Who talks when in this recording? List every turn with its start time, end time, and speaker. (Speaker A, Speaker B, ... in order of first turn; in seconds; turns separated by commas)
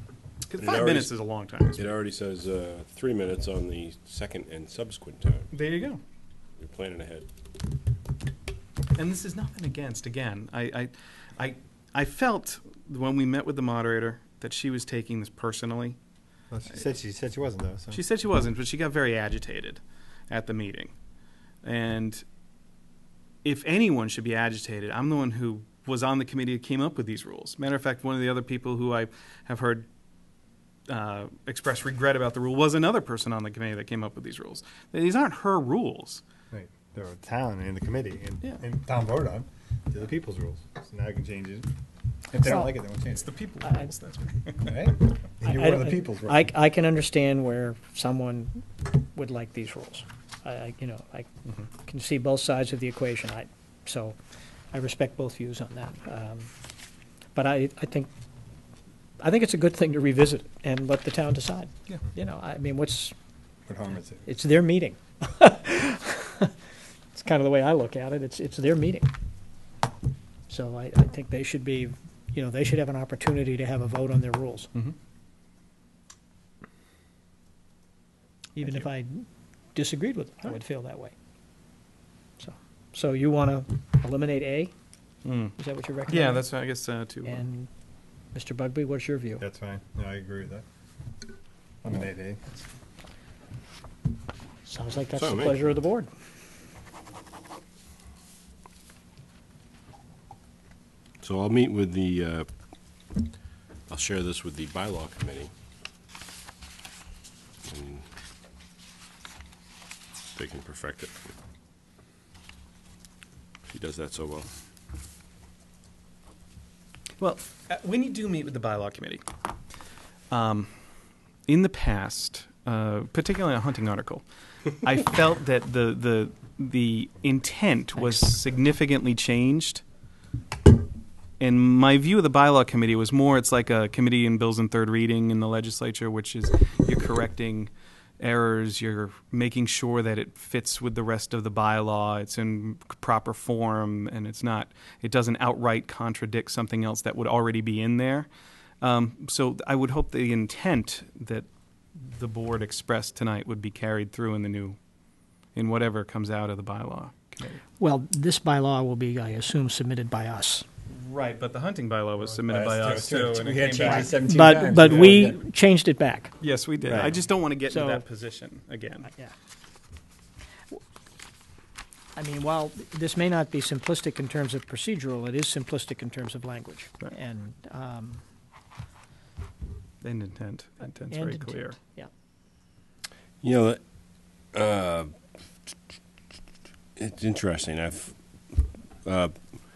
Speaker A: 0.5-1.9, Speaker B: 0.6-1.1, Speaker B: 1.8-5.5, Speaker A: 5.5-6.0, Speaker B: 6.6-7.3, Speaker A: 8.9-16.0, Speaker C: 16.5-18.0, Speaker A: 17.9-20.9, Speaker A: 21.6-22.2, Speaker A: 23.4-29.9, Speaker A: 30.9-36.2, Speaker C: 36.5-41.7, Speaker C: 42.3-43.3, Speaker D: 42.4-42.7, Speaker A: 42.5-44.8, Speaker D: 43.6-43.9, Speaker C: 44.7-46.5, Speaker D: 45.4-51.3, Speaker D: 51.8-54.2, Speaker D: 54.7-56.5, Speaker D: 57.4-58.1, Speaker D: 59.2-63.1, Speaker C: 63.7-64.3, Speaker D: 64.3-66.5, Speaker D: 67.1-69.1, Speaker D: 70.5-74.7, Speaker D: 78.6-81.1, Speaker D: 82.4-84.7, Speaker A: 85.2-85.6, Speaker D: 85.6-86.5, Speaker A: 86.1-87.5, Speaker D: 87.2-87.7, Speaker D: 88.3-89.4, Speaker C: 89.4-90.7, Speaker C: 91.8-92.4, Speaker D: 94.7-96.1, Speaker B: 95.2-95.7, Speaker B: 101.2-102.5, Speaker B: 103.9-105.5, Speaker B: 107.7-108.0, Speaker B: 110.4-111.2, Speaker B: 113.7-114.5, Speaker A: 117.2-119.2, Speaker A: 120.3-120.8, Speaker A: 121.5-129.8, Speaker D: 128.0-128.2, Speaker A: 131.4-148.3, Speaker A: 148.8-154.8, Speaker A: 155.5-157.6, Speaker D: 157.8-160.7, Speaker A: 160.9-164.2, Speaker C: 162.4-165.4, Speaker D: 163.7-166.3, Speaker A: 164.8-165.1, Speaker A: 166.4-169.1, Speaker C: 166.9-167.1, Speaker D: 167.7-168.0, Speaker D: 169.1-169.3, Speaker D: 172.2-178.2, Speaker A: 180.0-181.8, Speaker D: 181.1-182.1, Speaker B: 183.4-183.8, Speaker B: 184.5-185.1, Speaker B: 187.0-188.1, Speaker B: 189.1-189.4